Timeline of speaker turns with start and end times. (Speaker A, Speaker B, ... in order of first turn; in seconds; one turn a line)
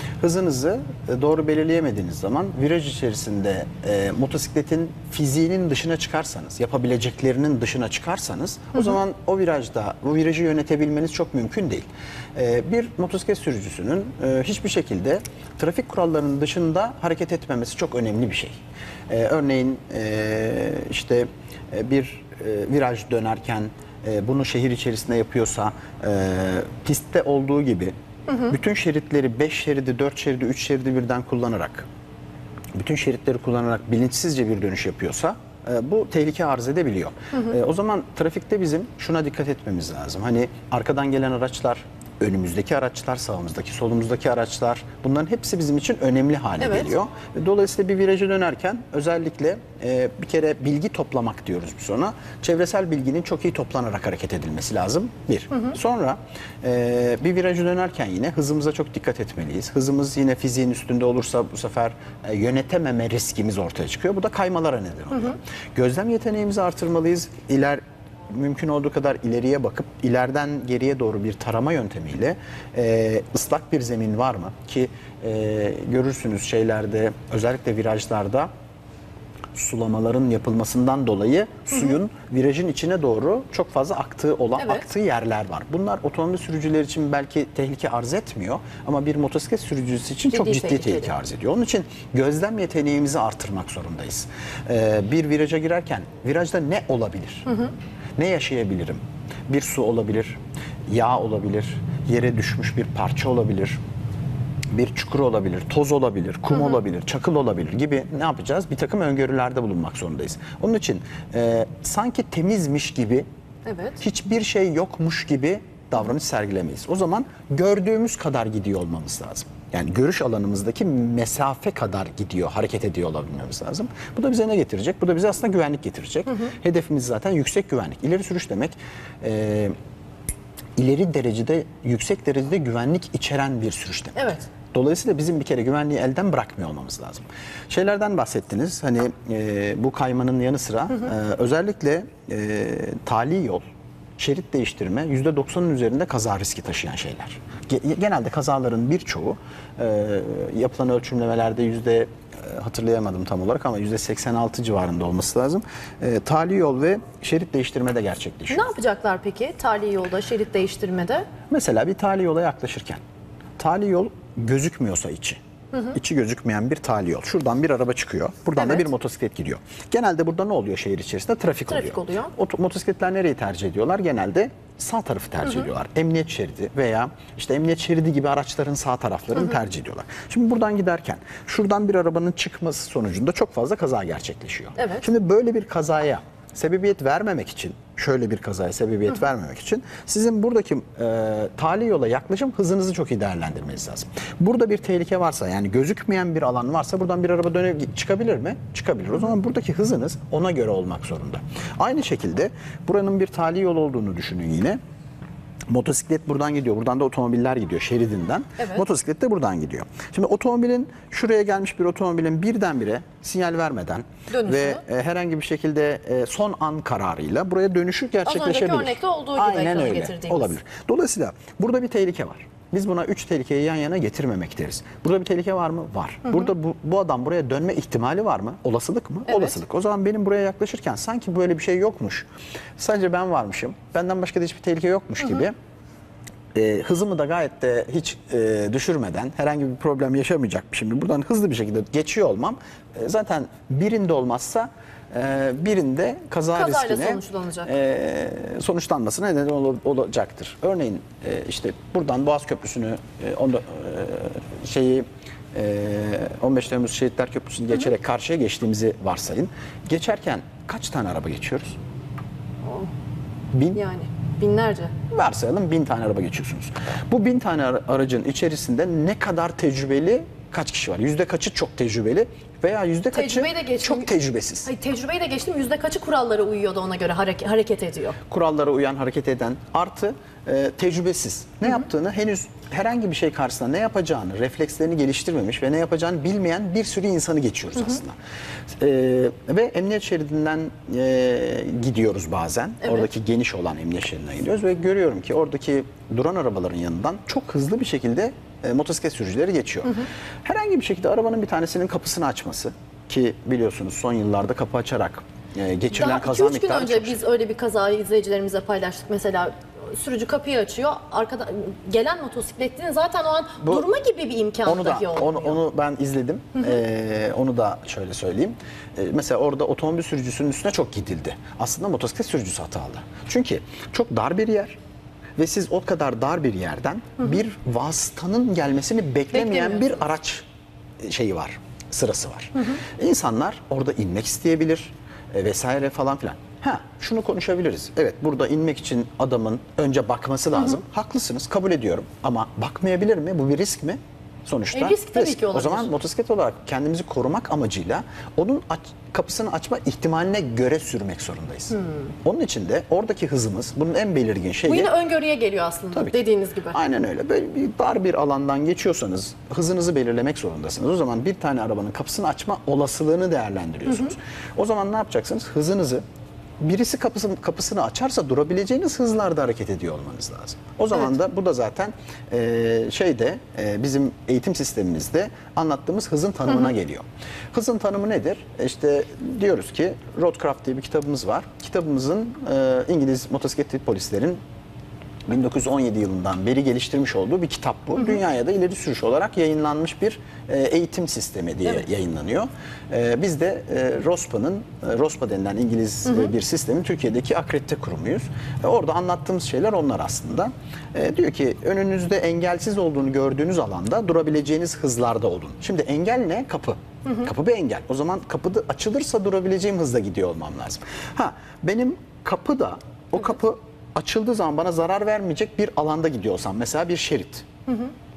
Speaker A: 0.2-27.9
Speaker B: 28.3-28.5
Speaker A: 28.5-31.9
Speaker A: 32.7-78.5
Speaker B: 46.6-46.9
Speaker A: 79.5-97.5
Speaker B: 84.6-84.8
Speaker B: 90.3-91.1
Speaker B: 97.5-97.7
Speaker A: 98.2-103.8
Speaker A: 104.7-113.2
Speaker B: 113.7-114.0
Speaker A: 114.0-129.8
Speaker A: 130.8-143.6
Speaker B: 134.2-134.5
Speaker A: 144.2-158.7
Speaker B: 158.5-161.3
Speaker A: 161.5-163.0
Speaker A: 163.6-165.4
Speaker A: 165.9-204.8
Speaker B: 168.6-168.8
Speaker B: 171.7-172.3
Speaker B: 184.8-185.0
Speaker A: 205.7-235.5
Speaker B: 208.6-208.8
Speaker B: 214.3-214.8
Speaker B: 218.2-220.5
Speaker B: 229.3-229.6
Speaker A: 236.5-261.8
Speaker B: 246.5-247.7
Speaker B: 262.6-262.9
Speaker A: 263.5-263.8
Speaker B: 263.7-264.9
Speaker A: 265.1-274.7
Speaker B: 273.1-274.1
Speaker B: 274.6-278.2
Speaker A: 278.3-288.1
Speaker A: 288.8-307.2
Speaker B: 305.9-315.6
Speaker A: 313.6-313.9
Speaker A: 314.6-324.8
Speaker A: 325.4-330.4
Speaker B: 329.3-329.9
Speaker A: 331.0-354.9
Speaker B: 344.7-345.9
Speaker B: 354.6-356.8
Speaker A: 355.9-366.0
Speaker B: 363.9-364.1
Speaker A: 366.6-384.4
Speaker A: 385.3-417.4